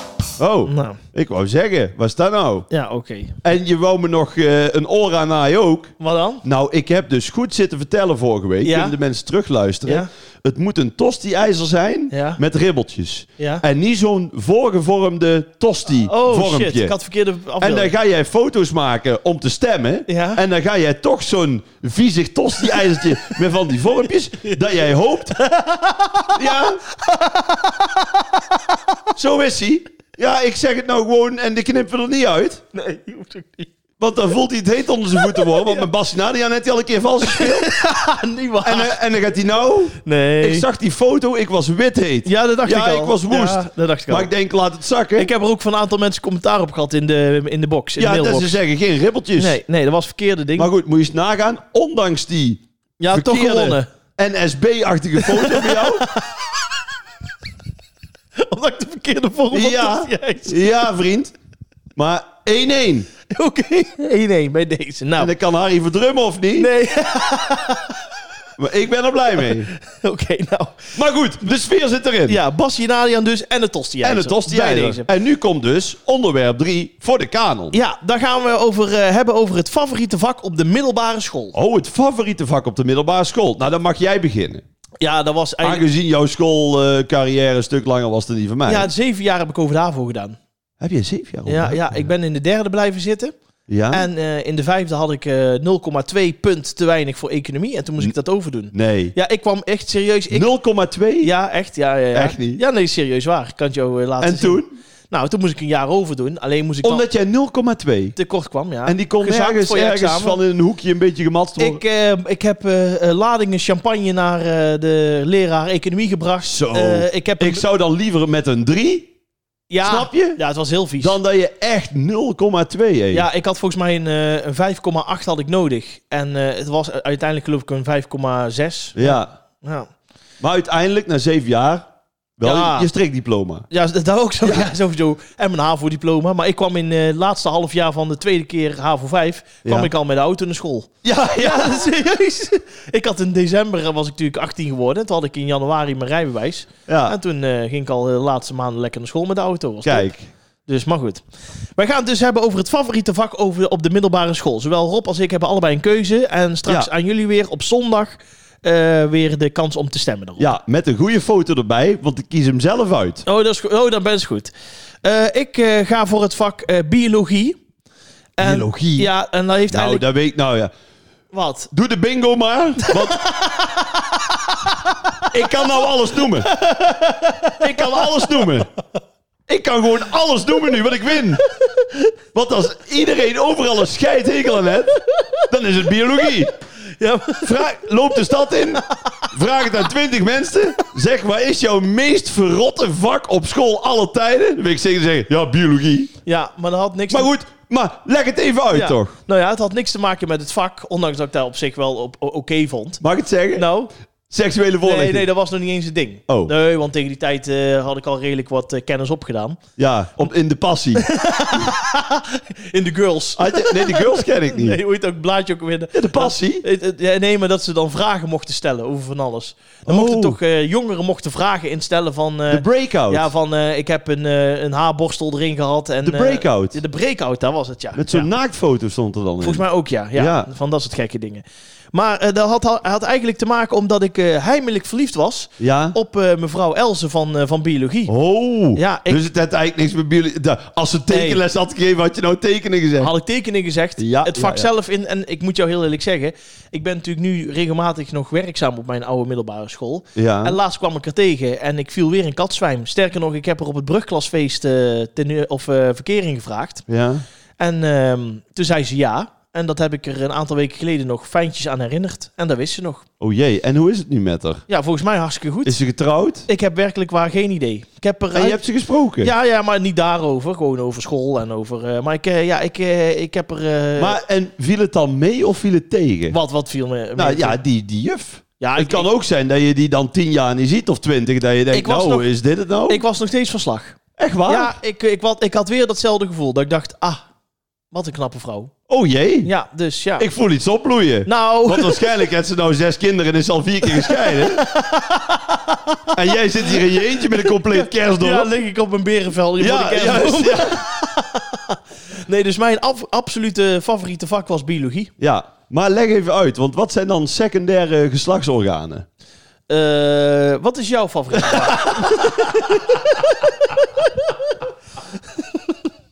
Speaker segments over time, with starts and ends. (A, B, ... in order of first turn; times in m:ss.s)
0:00.4-0:02.7 A
0:00.7-0:01.0 B
0:02.7-0:03.4 B
0:03.4-0:05.9 A
0:06.0-0:06.4 B
0:06.4-0:16.9 A
0:08.6-0:09.0 B
0:12.1-0:12.4 B
0:13.4-0:13.6 B
0:16.0-0:17.9 B
0:17.6-0:25.4 A
0:20.1-0:20.4 B
0:24.4-0:24.8 B
0:25.3-0:29.0 B
0:26.4-0:26.8 A
0:29.2-0:32.6 A
0:32.7-0:33.7 B
0:34.0-0:37.7 A
0:35.2-0:35.9 B
0:37.2-0:39.0 B
0:38.6-0:45.3 A
0:40.0-0:40.7 B
0:42.2-0:44.3 B
0:45.2-0:48.6 B
0:48.0-0:49.6 A
0:49.4-0:50.7 B
0:50.6-0:56.1 A
0:53.0-0:53.9 B
0:55.2-0:56.4 B
0:58.4-1:00.8 B
0:59.5-1:01.3 A
1:02.0-1:03.1 A
1:03.3-1:05.3 B
1:05.2-1:06.7 A
1:06.6-1:08.0 B
1:08.6-1:09.7 A
1:09.4-1:11.0 B
1:11.0-1:12.4 A
1:12.3-1:15.1 B
1:14.0-1:17.8 A
1:17.7-1:21.6 B
1:21.6-1:24.6 A
1:25.0-1:25.8 B
1:25.6-1:28.9 A
1:28.7-1:30.4 B
1:30.8-1:32.1 A
1:31.5-1:33.3 B
1:33.7-1:34.1 A
1:33.9-1:40.5 B
1:38.7-1:39.1 A
1:40.3-1:41.3 A
1:41.2-1:47.0 B
1:42.1-1:42.6 A
1:44.2-1:44.7 A
1:46.8-1:48.2 A
1:48.2-1:50.4 B
1:48.9-1:51.8 A
1:51.6-1:57.6 B
1:56.5-1:59.1 A
1:59.7-2:01.2 B
1:59.8-2:00.4 A
2:01.0-2:03.3 A
2:03.1-2:09.9 B
2:09.0-2:09.3 A
2:10.4-2:11.9 A
2:12.4-2:13.7 A
2:12.4-2:12.9 B
2:13.7-2:30.1 B
2:19.6-2:19.9 A
2:21.0-2:21.9 A
2:26.9-2:27.2 A
2:29.8-2:30.3 A
2:30.7-2:31.2 B
2:31.8-2:40.5 B
2:40.4-2:43.2 A
2:43.3-2:44.5 B
2:45.0-2:47.6 B
2:48.4-2:50.0 B
2:48.4-2:49.1 A
2:49.7-2:50.7 A
2:51.3-2:51.7 B
2:51.7-2:53.2 A
2:52.8-2:55.3 B
2:55.3-2:56.5 A
2:56.4-2:58.6 B
2:57.6-2:58.7 A
2:59.5-3:01.4 A
3:01.6-3:02.1 B
3:02.3-3:06.5 A
3:05.1-3:05.4 B
3:07.0-3:07.7 B
3:07.4-3:16.1 A
3:16.2-3:17.3 B
3:17.1-3:19.1 A
3:18.7-3:23.0 B
3:23.0-3:23.7 A
3:23.6-3:23.9 B
3:24.3-3:25.3 A
3:24.8-3:29.6 B
3:29.8-3:31.1 A
3:31.0-3:48.3 B
3:33.4-3:34.8 A
3:35.9-3:36.6 A
3:39.9-3:40.4 A
3:42.5-3:43.3 A
3:46.0-3:46.8 A
3:48.0-3:49.6 A
3:49.4-3:58.1 B
3:50.2-3:50.5 A
3:55.6-3:56.0 A
3:58.1-4:03.1 A
3:58.7-3:59.2 B
4:01.1-4:01.4 B
4:03.0-4:16.9 B
4:04.0-4:04.7 A
4:10.2-4:10.6 A
4:16.9-4:17.2 A
4:17.6-4:23.0 B
4:23.2-4:24.6 A
4:24.7-4:25.8 B
4:25.6-4:26.5 A
4:26.5-4:28.6 B
4:28.3-4:29.3 A
4:29.2-4:34.2 B
4:34.0-4:36.4 A
4:36.3-4:37.6 B
4:37.2-4:43.0 A
4:38.6-4:39.1 B
4:41.7-4:42.3 B
4:42.9-4:47.3 B
4:44.2-4:44.8 A
4:47.9-4:48.7 B
4:48.9-4:49.5 A
4:49.4-4:50.3 B
4:50.2-4:54.7 A
4:51.3-4:52.1 B
4:53.9-5:05.1 B
4:56.1-4:58.5 A
4:59.6-5:00.8 A
5:05.2-5:09.1 A
5:09.7-5:14.3 B
5:11.5-5:12.5 A
5:15.4-5:15.7 B